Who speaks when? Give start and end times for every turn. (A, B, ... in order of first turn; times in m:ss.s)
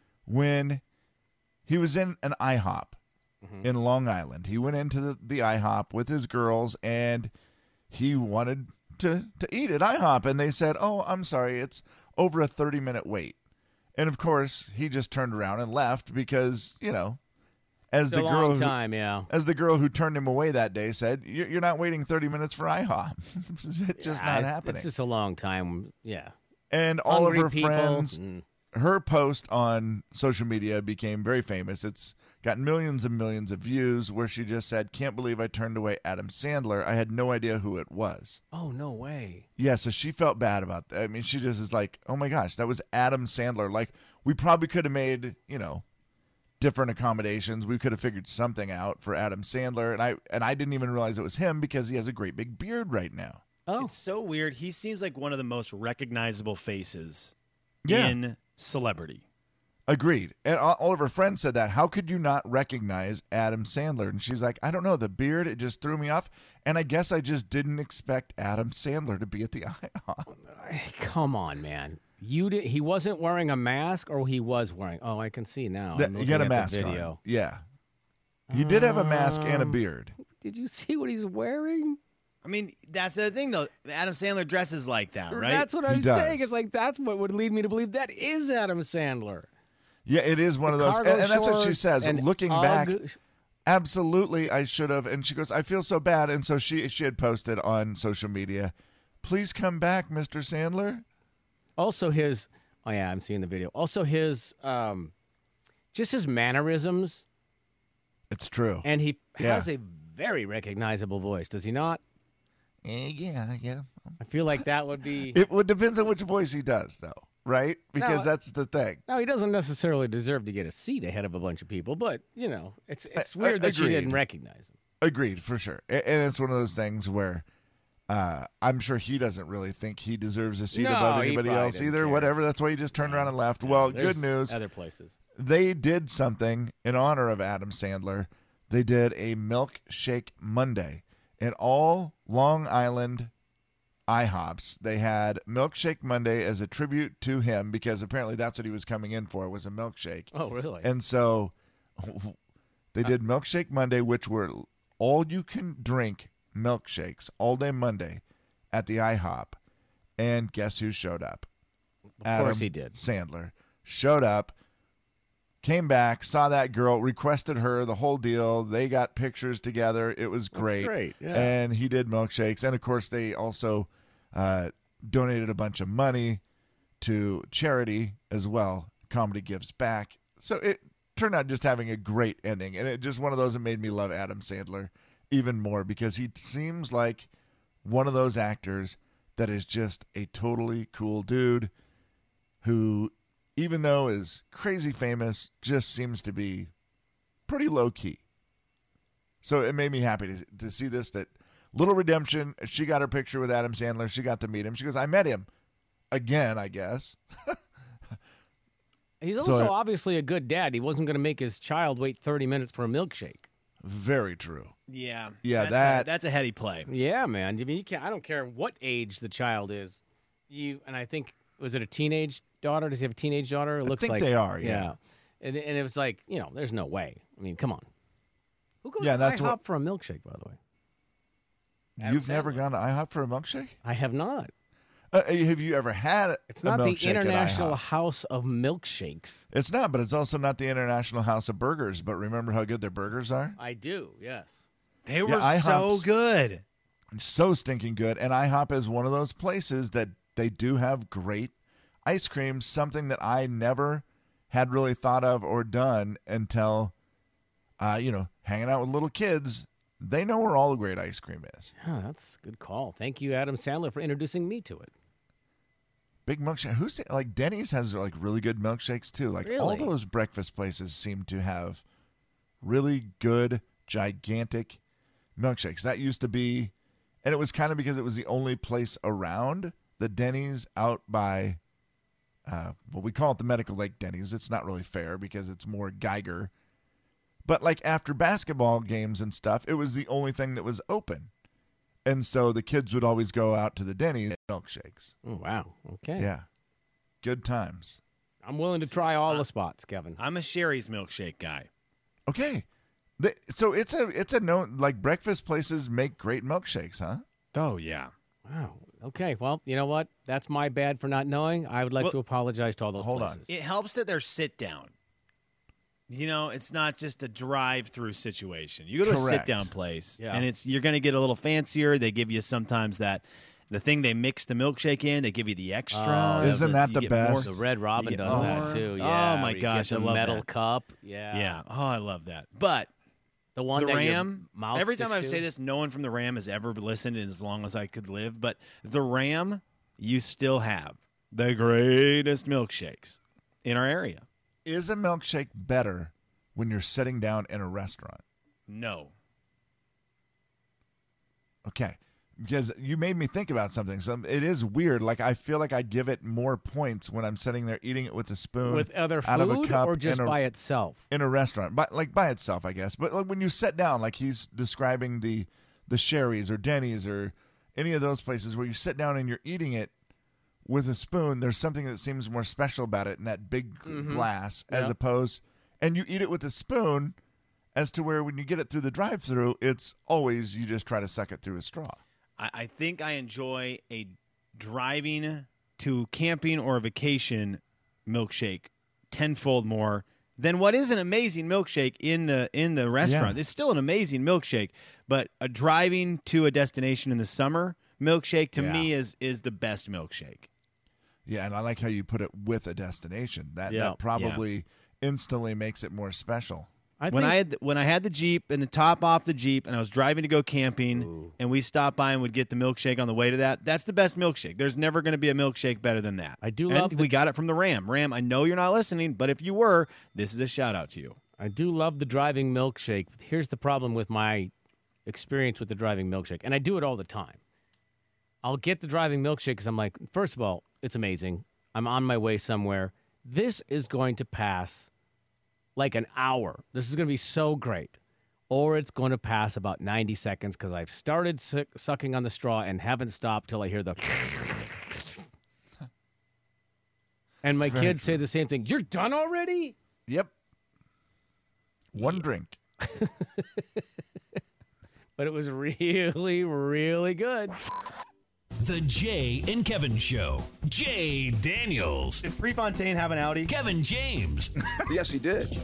0:00.2-0:00.8 A
0:01.7-0:03.0 A
0:03.4-0:03.7 B
0:03.6-0:07.3 A
0:07.9-0:13.4 A
0:14.0-0:17.2 A
0:17.9-0:18.8 A
0:18.1-0:19.3 B
0:19.3-0:24.9 A
0:24.0-0:26.3 B
0:26.7-0:28.2 A
0:27.1-0:28.4 B
0:28.7-0:38.4 A
0:38.5-0:39.4 B
0:39.6-0:45.8 A
0:46.6-0:53.4 A
0:53.7-0:53.9 B
0:53.8-0:57.3 C
0:57.8-0:58.2 A
0:57.8-0:59.2 C
0:59.9-1:10.3 A
1:10.3-1:17.2 B
1:15.9-1:17.6 A
1:18.5-1:20.1 A
1:18.5-1:22.0 B
1:22.4-1:25.7 C
1:25.3-1:29.5 B
1:25.8-1:26.5 A
1:30.0-1:33.0 A
1:30.7-1:33.2 B
1:33.7-1:41.0 A
1:41.8-1:45.1 B
1:45.9-1:47.2 B
1:48.3-1:48.9 A
1:48.8-1:52.0 B
1:49.4-1:49.7 A
1:52.8-1:54.6 A
1:54.2-1:55.4 B
1:55.3-1:59.0 A
1:58.0-1:58.3 B
1:59.1-2:04.7 B
2:03.2-2:04.2 A
2:05.0-2:07.4 A
2:08.1-2:14.6 A
2:10.7-2:12.3 B
2:13.0-2:15.2 B
2:15.3-2:23.3 A
2:24.1-2:32.4 A
2:30.3-2:30.9 B
2:32.9-2:39.6 A
2:40.2-2:41.5 A
2:42.2-2:43.0 B
2:42.2-2:44.5 A
2:45.6-2:56.4 A
2:50.5-2:51.5 B
2:57.0-3:07.3 A
3:07.8-3:11.7 A
3:12.6-3:16.7 A
3:17.5-3:18.2 A
3:19.4-3:25.5 A
3:26.1-3:27.6 A
3:29.2-3:33.5 B
3:29.4-3:29.8 A
3:33.8-3:34.7 A
3:34.9-3:36.9 C
3:35.4-3:36.1 A
3:36.9-3:47.8 B
3:43.8-3:44.9 A
3:48.8-3:50.6 B
3:49.0-3:49.6 A
3:52.0-3:53.7 A
3:52.0-3:52.6 B
3:53.8-3:54.5 B
3:55.1-3:57.8 A
3:56.5-3:59.4 B
3:59.5-4:03.6 A
4:03.6-4:04.6 B
4:05.0-4:06.6 C
4:05.2-4:06.1 A
4:07.1-4:11.5 A
4:12.0-4:16.9 A
4:17.8-4:21.7 A
4:21.8-4:24.9 B
4:26.2-4:31.8 A
4:29.4-4:29.9 B
4:32.6-4:34.8 A
4:35.4-4:36.7 A
4:37.2-4:41.6 A
4:42.5-4:46.5 A
4:47.4-4:51.3 A
4:52.0-4:55.1 A
4:55.2-4:56.3 B
4:56.2-4:56.5 A
4:57.2-4:58.0 A
4:58.4-5:00.2 B
5:00.2-5:01.7 C
5:02.3-5:02.6 A
5:03.2-5:07.2 A
5:07.5-5:08.1 C
5:08.5-5:13.5 B
5:13.0-5:13.4 A
5:13.5-5:14.9 C
5:16.1-5:30.4 C
5:19.0-5:19.7 A
5:20.2-5:20.5 B
5:25.9-5:26.8 B
5:26.4-5:27.6 A
5:27.4-5:31.6 B
5:28.2-5:28.8 A
5:31.3-5:32.9 C
5:33.6-5:35.4 B
5:33.7-5:44.2 C
5:44.6-5:48.2 A
5:48.7-5:49.1 C
5:51.6-6:00.4 A
5:58.6-6:01.0 B
6:01.1-6:09.9 A
6:10.6-6:17.2 A
6:13.8-6:14.9 B
6:17.8-6:22.0 A
6:22.4-6:40.5 C
6:33.0-6:33.4 A
6:38.6-6:38.9 B
6:41.2-6:46.7 A
6:43.7-6:44.0 B
6:44.2-6:44.4 C
6:47.0-6:47.4 B
6:47.1-7:01.2 C
6:50.9-6:51.3 B
6:56.4-6:57.1 B
7:01.4-7:04.5 B
7:05.0-7:07.4 B
7:08.4-7:14.9 B
7:15.8-7:18.0 B
7:18.5-7:25.2 B
7:27.4-7:29.8 B
7:27.6-7:28.2 A
7:30.1-7:30.3 A
7:31.9-7:32.6 A
7:32.8-7:33.8 B
7:35.2-7:37.6 B
7:38.6-7:42.2 D
7:42.2-7:43.5 C
7:43.5-7:44.5 D
7:44.8-7:45.5 A